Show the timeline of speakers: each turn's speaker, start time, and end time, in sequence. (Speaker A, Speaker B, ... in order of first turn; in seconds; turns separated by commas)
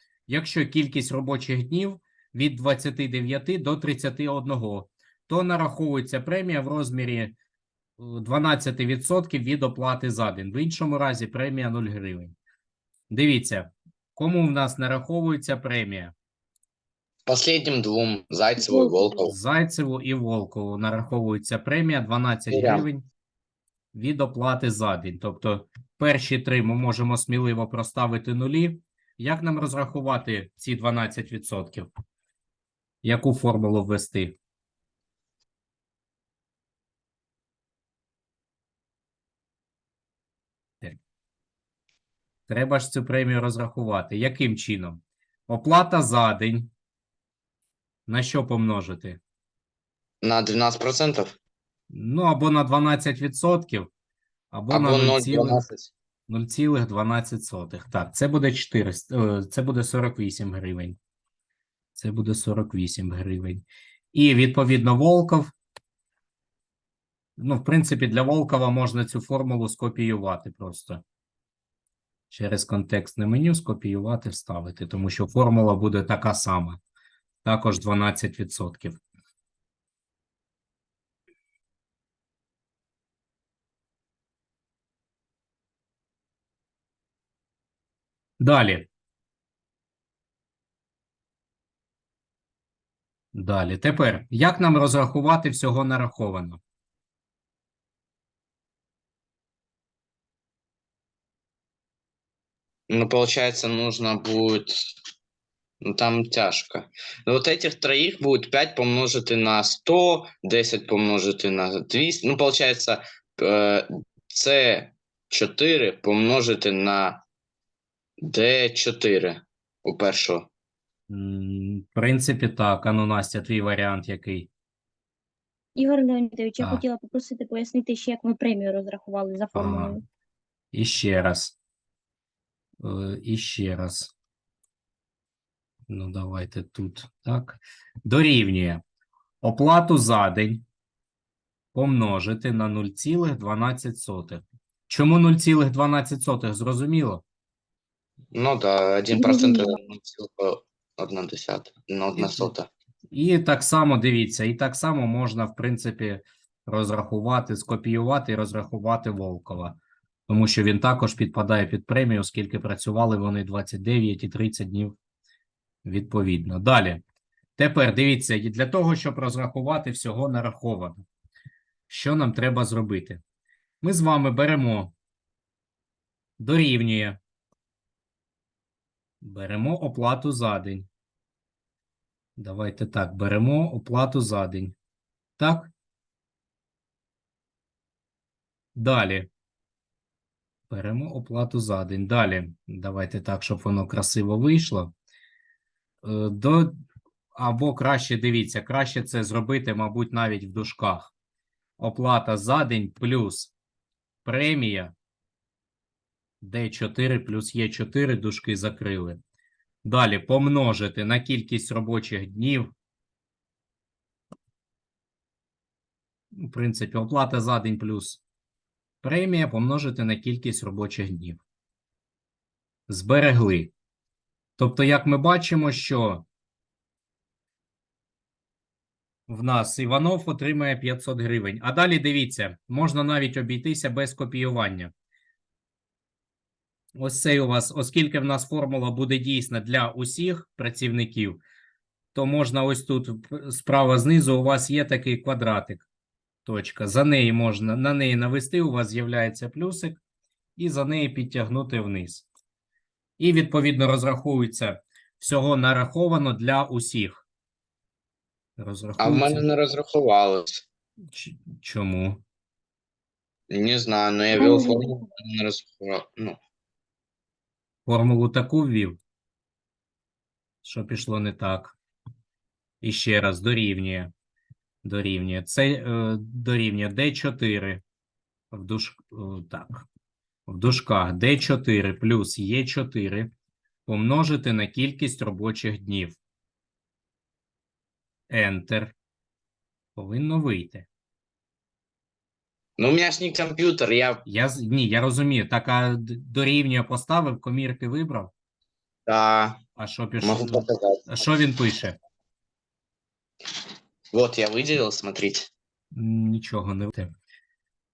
Speaker A: 0.3-7.3, Speaker A: 8.0-12.3, Speaker A: 13.1-16.1, Speaker B: 17.2-19.3, Speaker C: 18.6-19.0, Speaker A: 19.2-23.1, Speaker B: 22.5-22.8, Speaker A: 23.9-31.9, Speaker A: 33.0-34.3, Speaker A: 42.5-46.7, Speaker A: 48.1-49.2, Speaker B: 50.2-51.4, Speaker A: 51.9-53.9, Speaker A: 54.5-55.6, Speaker B: 54.7-55.9, Speaker A: 56.3-61.0, Speaker A: 61.9-65.5, Speaker A: 67.4-71.0, Speaker A: 72.3-76.8, Speaker A: 77.4-79.0, Speaker A: 88.4-88.9, Speaker A: 93.3-96.6, Speaker B: 102.9-104.9, Speaker B: 105.8-117.2, Speaker B: 118.2-120.5, Speaker A: 121.1-124.5, Speaker C: 125.8-130.0, Speaker A: 129.5-129.9, Speaker A: 130.7-131.5, Speaker A: 132.8-134.1, Speaker A: 135.9-138.8, Speaker A: 139.4-140.6, Speaker A: 141.7-147.2, Speaker B: 148.3-152.7, Speaker C: 149.1-149.8, Speaker A: 153.1-164.9, Speaker A: 165.8-167.0, Speaker A: 167.6-171.0, Speaker A: 171.9-173.2, Speaker A: 173.8-174.9, Speaker A: 176.4-177.2, Speaker A: 179.2-180.9, Speaker A: 182.4-184.7, Speaker A: 185.4-185.7, Speaker A: 188.7-189.3, Speaker A: 190.7-194.9, Speaker A: 196.0-196.8, Speaker A: 197.3-201.1, Speaker A: 201.8-203.5, Speaker A: 204.2-204.9, Speaker A: 206.4-209.2, Speaker A: 209.8-212.7, Speaker A: 216.3-218.2, Speaker A: 219.0-221.4, Speaker A: 222.9-223.7, Speaker A: 224.6-226.2, Speaker A: 229.3-234.9, Speaker A: 236.9-241.4, Speaker A: 242.1-245.8, Speaker A: 246.4-250.0, Speaker A: 250.6-252.3, Speaker A: 253.2-257.2, Speaker A: 258.6-259.5, Speaker B: 259.0-260.6, Speaker A: 261.1-262.2, Speaker B: 263.5-266.4, Speaker C: 264.3-265.0, Speaker A: 267.9-269.0, Speaker A: 270.6-271.8, Speaker A: 272.8-274.1, Speaker A: 274.8-277.8, Speaker A: 278.5-279.9, Speaker A: 280.5-283.3, Speaker A: 283.9-286.2, Speaker A: 288.3-288.9, Speaker A: 289.9-290.9, Speaker B: 292.8-294.2, Speaker A: 294.2-298.3, Speaker B: 299.1-299.6, Speaker A: 299.8-302.0, Speaker B: 300.2-301.1, Speaker B: 304.1-305.5, Speaker A: 305.9-307.1